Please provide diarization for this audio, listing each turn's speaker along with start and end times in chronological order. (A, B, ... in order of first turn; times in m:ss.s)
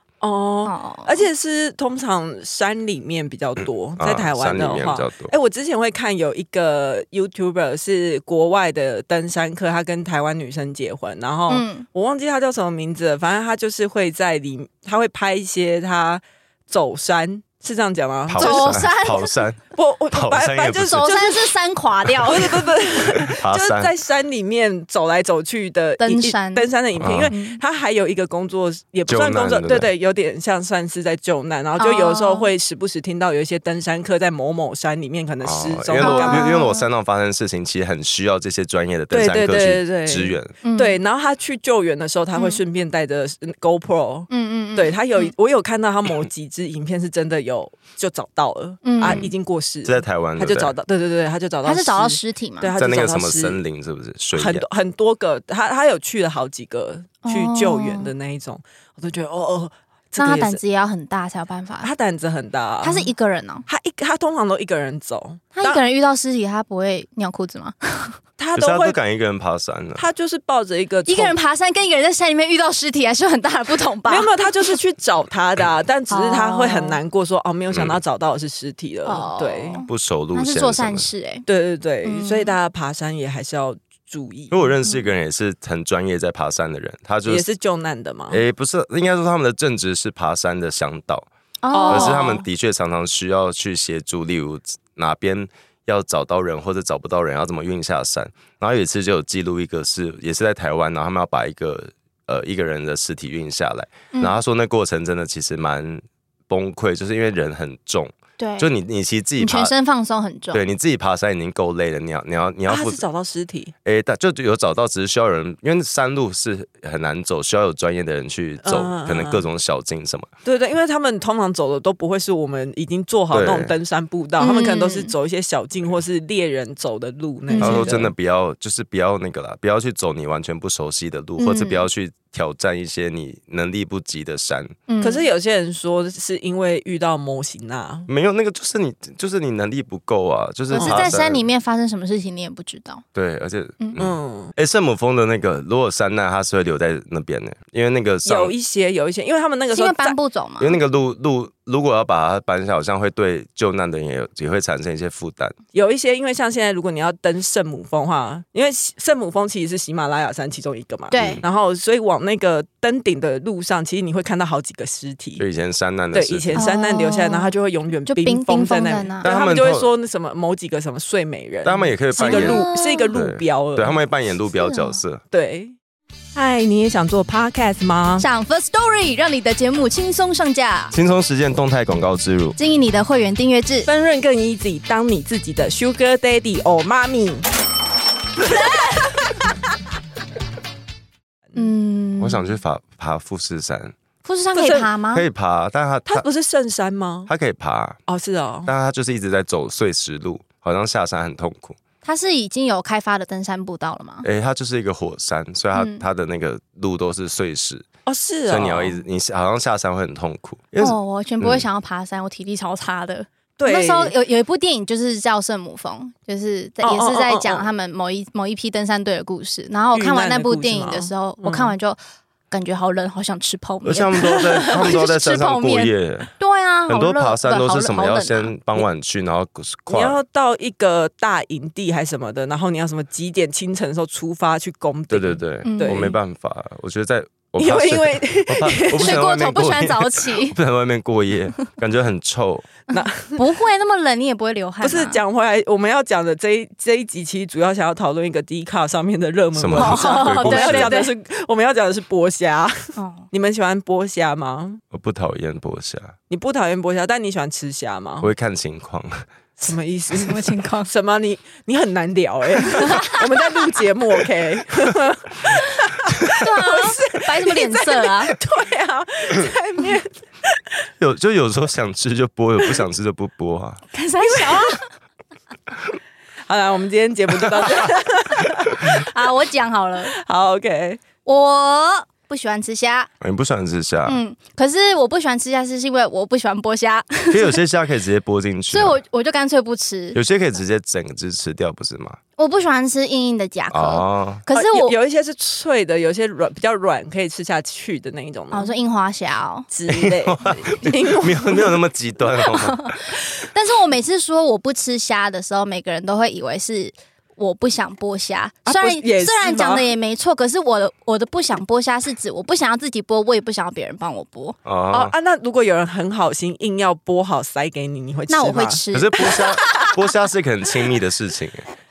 0:00.2-0:18.9 A
0:00.6-0:01.2 B
0:04.0-0:05.3 C
0:11.5-0:11.8 B
0:18.3-0:21.1 C
0:18.4-0:19.3 B
0:19.7-0:21.5 A
0:20.8-0:22.6 B
0:22.2-0:36.6 A
0:23.1-0:23.9 C
0:26.0-0:26.7 B
0:27.0-0:27.3 C
0:27.3-0:27.6 B
0:29.1-0:29.9 C
0:31.8-0:32.5 B
0:35.4-0:40.5 C
0:36.0-0:36.8 B
0:39.1-0:53.6 A
0:40.6-0:41.0 B
0:42.3-0:42.6 B
0:44.3-0:45.3 B
0:48.8-0:49.3 B
0:49.0-0:49.3 C
0:49.8-0:50.7 C
0:51.6-0:52.7 B
0:52.8-0:54.6 C
0:54.3-1:00.6 A
0:57.2-0:58.1 B
1:00.2-1:01.9 B
1:01.8-1:03.1 A
1:02.8-1:03.6 B
1:03.7-1:05.8 A
1:05.6-1:08.2 B
1:08.4-1:09.0 A
1:08.5-1:10.0 C
1:10.0-1:11.4 A
1:11.1-1:14.3 B
1:14.0-1:19.8 A
1:16.1-1:17.0 B
1:17.7-1:18.0 C
1:19.0-1:21.4 B
1:19.9-1:21.1 C
1:21.5-1:24.7 A
1:22.0-1:22.5 B
1:24.5-1:27.5 C
1:27.3-1:28.4 A
1:28.3-1:31.3 C
1:31.6-1:32.4 B
1:31.7-1:32.4 A
1:31.9-1:49.7 C
1:48.4-1:48.7 B
1:49.4-1:50.6 B
1:50.5-1:53.0 C
1:52.7-1:53.7 A
1:53.8-2:00.3 C
1:58.6-1:59.4 A
2:00.4-2:08.1 A
2:03.3-2:03.7 C
2:04.4-2:05.1 B
2:07.5-2:07.9 B
2:07.6-2:14.8 C
2:11.4-2:11.8 B
2:14.9-2:15.2 B
2:15.0-2:18.1 A
2:18.1-2:21.4 C
2:20.7-2:23.0 B
2:20.8-2:21.1 A
2:23.1-2:28.5 C
2:24.0-2:24.5 A
2:28.2-2:30.2 A
2:29.7-2:30.7 B
2:30.6-2:35.5 C
2:35.7-2:45.4 A
2:41.1-2:41.4 B
2:41.2-2:41.4 C
2:45.4-2:46.6 C
2:46.1-2:54.0 A
2:46.5-2:47.5 B
2:48.1-2:49.3 B
2:49.2-2:49.9 C
2:51.6-2:55.2 C
2:52.1-2:53.1 B
2:54.5-2:55.0 B
2:55.3-2:55.7 A
2:56.3-2:58.2 A
2:58.2-3:00.9 B
3:00.9-3:02.6 C
3:02.6-3:03.9 B
3:03.8-3:07.5 A
3:08.5-3:09.2 A
3:08.5-3:09.0 B
3:11.5-3:12.6 B
3:12.2-3:13.9 C
3:14.2-3:15.2 B
3:14.5-3:14.9 A
3:15.1-3:16.2 C
3:16.1-3:17.3 A
3:17.3-3:18.0 C
3:18.1-3:18.7 A
3:18.6-3:21.8 C
3:22.0-3:24.2 B
3:24.2-3:27.8 C
3:25.7-3:26.0 B
3:28.0-3:29.0 A
3:28.5-3:31.6 C
3:30.8-3:42.0 B
3:33.6-3:34.1 A
3:36.8-3:37.7 A
3:39.9-3:41.7 A
3:42.5-3:48.5 B
3:43.8-3:46.3 C
3:46.9-3:50.2 C
3:49.9-3:56.1 A
3:55.1-4:02.7 C
3:55.6-3:56.1 B
3:57.6-3:59.2 A
3:58.9-4:00.6 B
4:02.9-4:03.4 A
4:02.9-4:05.2 B
4:04.8-4:14.8 A
4:09.5-4:11.0 C
4:09.8-4:11.1 B
4:13.0-4:13.2 B
4:14.9-4:16.2 C
4:16.3-4:18.3 A
4:18.2-4:19.2 C
4:19.6-4:30.6 A
4:20.2-4:20.9 B
4:22.7-4:23.2 B
4:26.3-4:28.4 B
4:31.0-4:33.8 C
4:33.9-4:34.8 B
4:34.2-4:34.8 A
4:36.5-4:39.0 A
4:38.8-4:40.1 B
4:40.1-4:41.0 A
4:41.2-4:43.1 B
4:43.2-4:44.2 C
4:44.0-4:47.6 B
4:47.3-4:49.0 C
4:48.7-4:50.2 B
4:50.1-4:52.2 C
4:52.4-4:55.0 B
4:53.7-4:54.4 C
4:54.5-4:58.7 A
4:58.5-4:59.6 B
4:59.7-5:01.8 A
4:59.9-5:03.0 C
5:02.4-5:14.6 B
5:08.6-5:09.8 A
5:14.6-5:15.1 C
5:14.9-5:18.8 A
5:18.3-5:19.4 B
5:18.9-5:21.6 C
5:19.3-5:20.0 A